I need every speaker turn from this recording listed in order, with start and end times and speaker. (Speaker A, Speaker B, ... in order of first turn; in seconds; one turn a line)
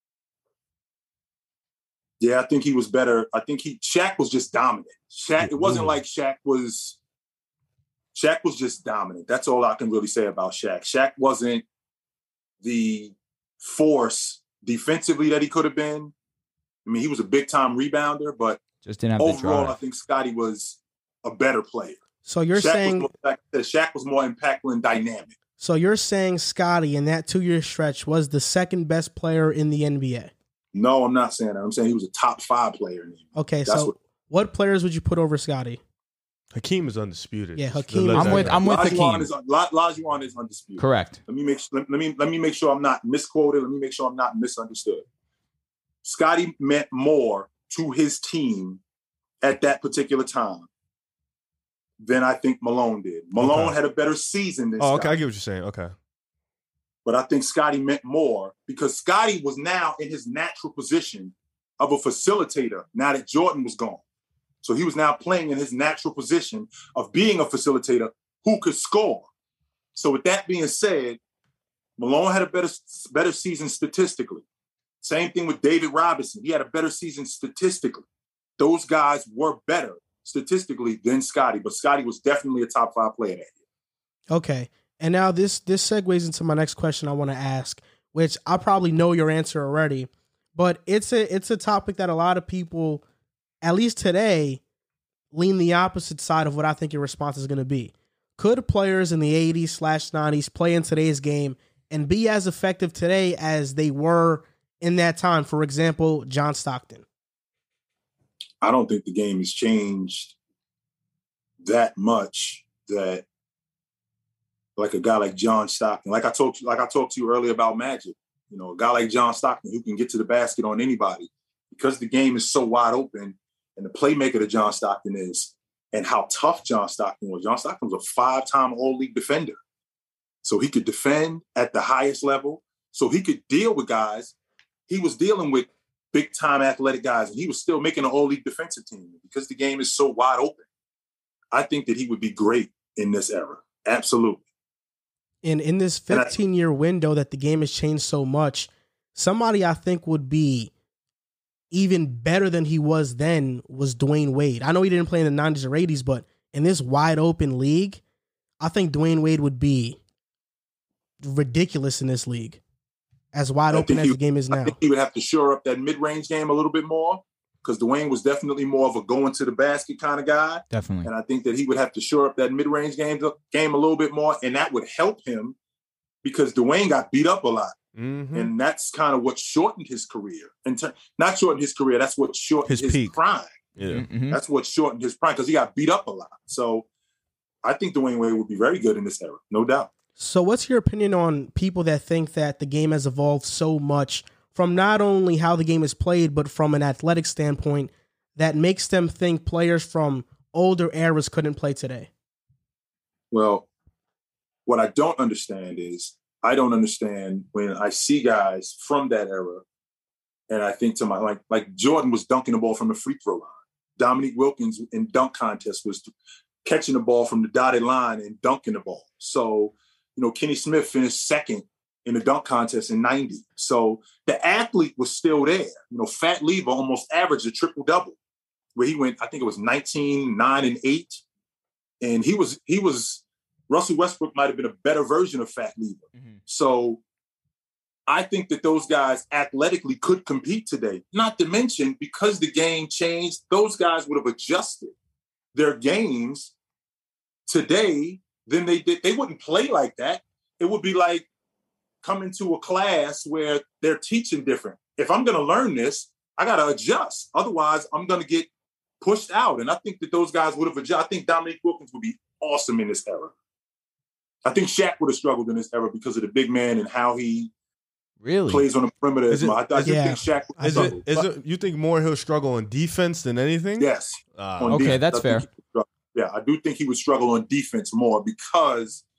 Speaker A: 2.2-7.0
Speaker B: 5.4-5.9
Speaker A: 8.1-11.6
Speaker A: 12.6-16.1
Speaker A: 16.9-18.6
Speaker C: 18.8-19.8
Speaker A: 19.2-22.0
Speaker D: 22.2-23.1
Speaker A: 22.5-25.3
Speaker D: 25.6-30.3
Speaker A: 30.7-33.9
Speaker D: 33.4-35.8
Speaker B: 36.5-38.6
Speaker D: 37.5-38.5
Speaker C: 38.1-39.3
Speaker A: 38.6-45.0
Speaker C: 40.8-41.2
Speaker A: 46.0-48.8
Speaker A: 49.4-50.7
Speaker A: 52.0-55.2
Speaker B: 53.4-53.8
Speaker B: 54.8-55.9
Speaker A: 57.0-64.0
Speaker A: 64.6-69.3
Speaker A: 69.9-71.2
Speaker A: 72.0-74.4
Speaker A: 75.0-78.0
Speaker A: 78.6-83.5
Speaker D: 84.3-93.0
Speaker D: 93.6-94.6
Speaker D: 95.3-107.0
Speaker A: 108.6-110.3
Speaker A: 111.6-113.2
Speaker A: 114.8-129.6
Speaker A: 130.4-134.3
Speaker A: 134.9-140.7
Speaker A: 141.5-144.4
Speaker D: 145.4-150.7
Speaker A: 146.1-146.3
Speaker D: 151.7-158.0
Speaker D: 158.6-160.0
Speaker D: 161.2-162.6
Speaker D: 163.3-164.7
Speaker A: 163.7-175.6
Speaker C: 170.7-171.1
Speaker A: 176.2-177.8
Speaker B: 177.9-178.5
Speaker A: 178.3-183.6
Speaker B: 182.7-183.1
Speaker B: 183.8-184.1
Speaker C: 183.9-184.4
Speaker A: 184.3-186.8
Speaker A: 187.6-189.9
Speaker D: 190.2-202.1
Speaker A: 203.3-203.7
Speaker A: 204.7-209.6
Speaker A: 210.5-216.1
Speaker A: 216.6-228.2
Speaker A: 228.8-231.2
Speaker A: 232.0-237.0
Speaker A: 238.1-244.9
Speaker A: 245.6-246.5
Speaker A: 247.5-251.3
Speaker A: 252.0-258.5
Speaker A: 259.0-263.3
Speaker A: 264.4-267.5
Speaker C: 268.2-268.6
Speaker A: 268.5-271.0
Speaker B: 269.3-275.0
Speaker D: 269.9-271.0
Speaker A: 273.8-279.0
Speaker C: 274.7-275.4